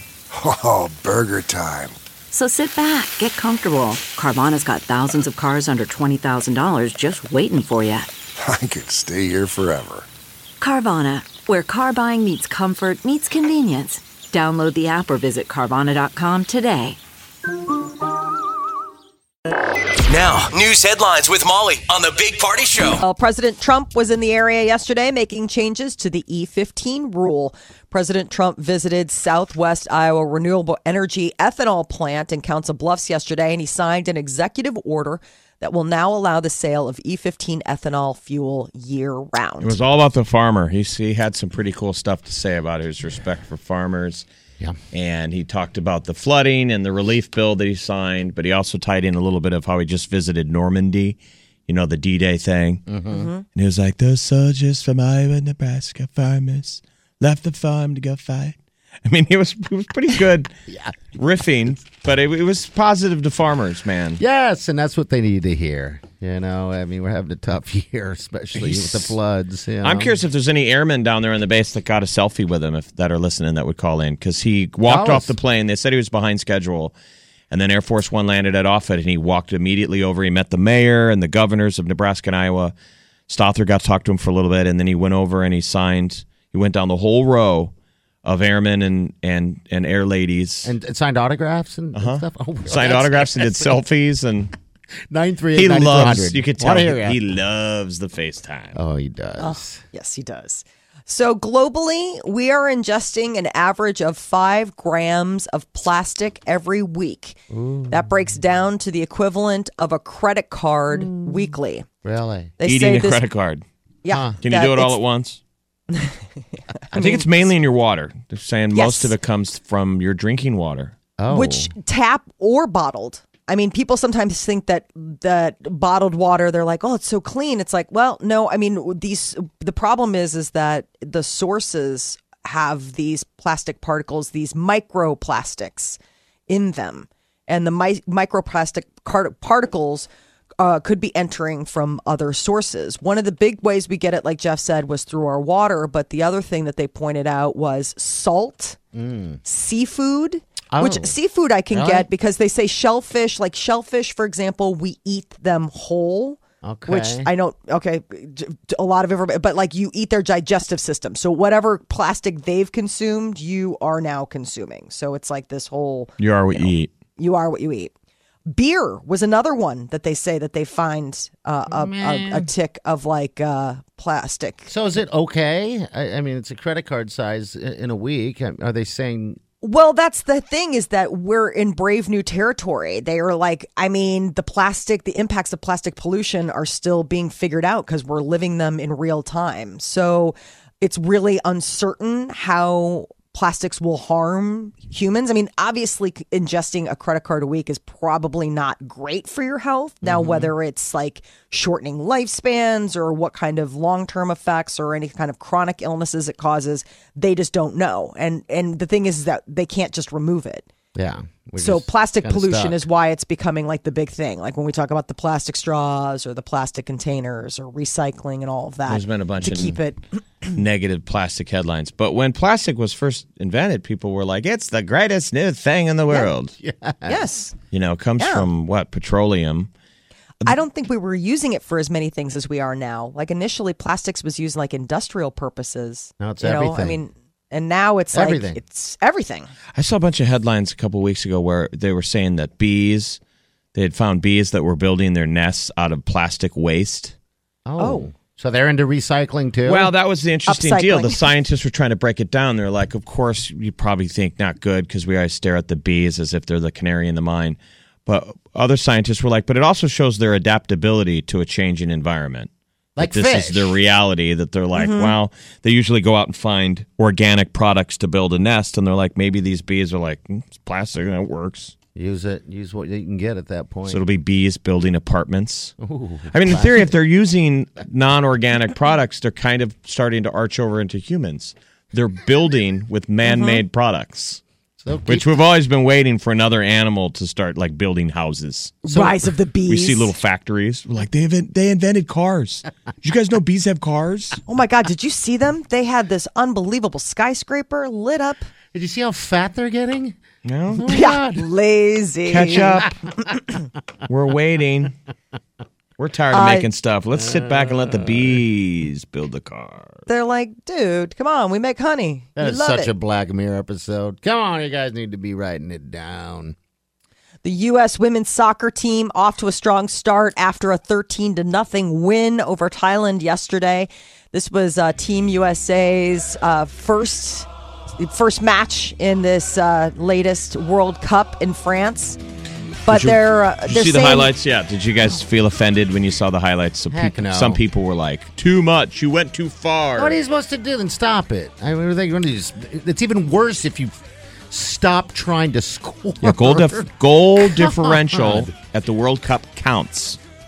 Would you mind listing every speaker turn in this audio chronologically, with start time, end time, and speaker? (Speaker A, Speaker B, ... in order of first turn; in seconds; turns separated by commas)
Speaker A: 0.3-2.0, Speaker B: 2.3-8.1, Speaker A: 8.4-10.1, Speaker B: 10.6-17.0, Speaker C: 20.1-23.0, Speaker D: 23.0-39.8, Speaker E: 39.6-44.3, Speaker E: 44.9-52.9, Speaker F: 52.9-53.3, Speaker D: 53.1-53.4, Speaker E: 53.5-60.5, Speaker F: 60.7-61.0, Speaker E: 61.1-64.2, Speaker F: 64.2-70.2, Speaker E: 68.5-69.2, Speaker E: 69.8-76.9, Speaker F: 74.9-75.3, Speaker E: 77.5-82.7, Speaker E: 83.3-87.7, Speaker E: 88.2-90.7, Speaker F: 90.6-93.8, Speaker E: 92.0-94.5, Speaker F: 95.1-97.2, Speaker E: 95.5-98.8, Speaker F: 98.8-99.8, Speaker D: 99.4-111.9, Speaker F: 107.5-108.1, Speaker F: 112.0-112.5, Speaker D: 112.6-113.2, Speaker E: 112.7-113.6, Speaker D: 114.0-115.0, Speaker F: 114.1-114.4, Speaker E: 114.4-115.4, Speaker D: 116.9-117.2, Speaker E: 116.9-121.0, Speaker D: 118.7-119.1, Speaker F: 121.2-121.7, Speaker D: 121.3-148.8, Speaker F: 148.9-149.4, Speaker D: 149.4-167.9, Speaker F: 150.7-151.1, Speaker F: 151.7-152.1, Speaker F: 156.6-157.3, Speaker E: 166.2-166.9, Speaker D: 168.5-174.7, Speaker F: 171.7-172.5, Speaker F: 174.7-179.4, Speaker D: 179.6-210.7, Speaker F: 200.0-200.5, Speaker F: 210.9-212.8, Speaker D: 211.6-220.5, Speaker E: 218.9-219.8, Speaker E: 220.5-226.5, Speaker F: 226.6-227.2, Speaker D: 227.1-227.5, Speaker E: 227.7-229.7, Speaker D: 228.2-228.5, Speaker D: 230.4-239.5, Speaker F: 236.2-237.0, Speaker F: 238.1-238.6, Speaker E: 239.8-243.2, Speaker E: 243.7-247.2, Speaker F: 247.7-249.9, Speaker D: 247.8-248.1, Speaker E: 249.7-271.8, Speaker D: 250.5-251.2, Speaker F: 263.0-263.8, Speaker D: 264.8-265.1, Speaker F: 271.9-274.0, Speaker E: 273.9-275.8, Speaker F: 275.8-276.9, Speaker E: 276.3-284.4, Speaker D: 283.3-283.6, Speaker F: 284.8-285.3, Speaker E: 285.1-294.4, Speaker D: 288.9-290.1, Speaker D: 294.5-298.5, Speaker F: 298.7-300.2, Speaker E: 300.4-301.1, Speaker F: 300.7-301.5, Speaker D: 300.9-302.8, Speaker E: 302.3-303.0, Speaker E: 304.1-304.9, Speaker E: 306.0-310.0, Speaker D: 306.3-306.7, Speaker F: 307.2-308.2, Speaker D: 310.1-312.9, Speaker F: 312.4-316.6, Speaker D: 317.4-327.5, Speaker D: 328.0-332.2, Speaker D: 332.9-334.3, Speaker E: 332.9-340.2, Speaker F: 336.9-337.6, Speaker F: 340.0-343.9, Speaker F: 344.5-348.5, Speaker E: 346.2-350.2